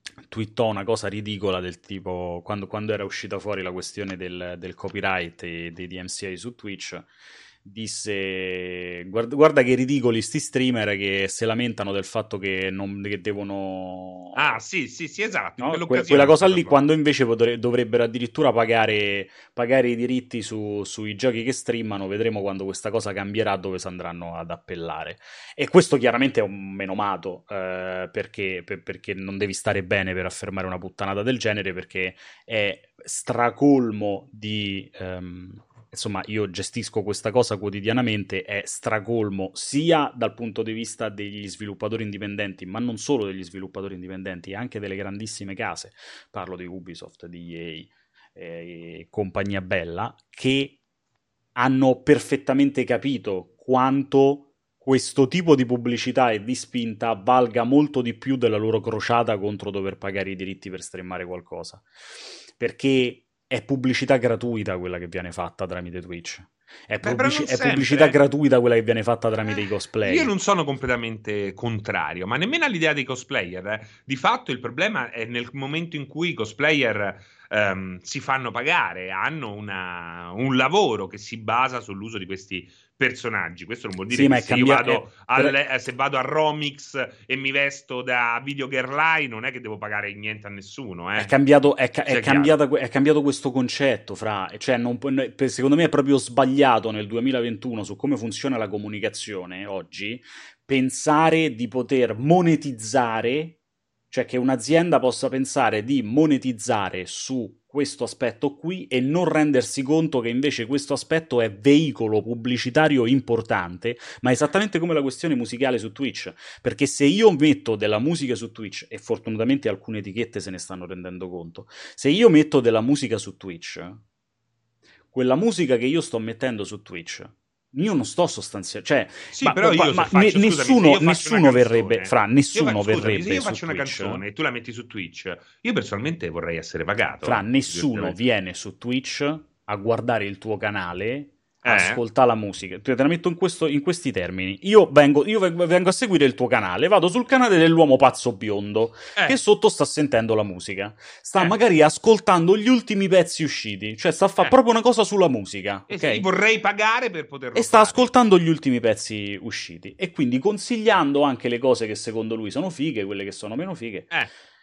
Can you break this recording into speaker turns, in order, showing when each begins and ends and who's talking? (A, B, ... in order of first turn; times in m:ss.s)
0:00.3-0:07.1 A
0:07.6-0:14.4 A
0:14.4-0:16.8 B
0:15.6-0:50.8 A
0:51.6-1:01.9 A
1:02.6-1:10.3 A
1:07.0-1:08.2 B
1:10.0-1:31.3 B
1:24.1-1:25.6 A
1:31.2-1:43.6 A
1:32.0-1:32.6 B
1:44.1-2:04.0 A
2:05.1-2:14.2 A
2:09.3-2:18.2 B
2:17.2-2:36.3 A
2:21.6-2:22.0 B
2:35.9-2:38.1 B
2:37.6-2:44.1 A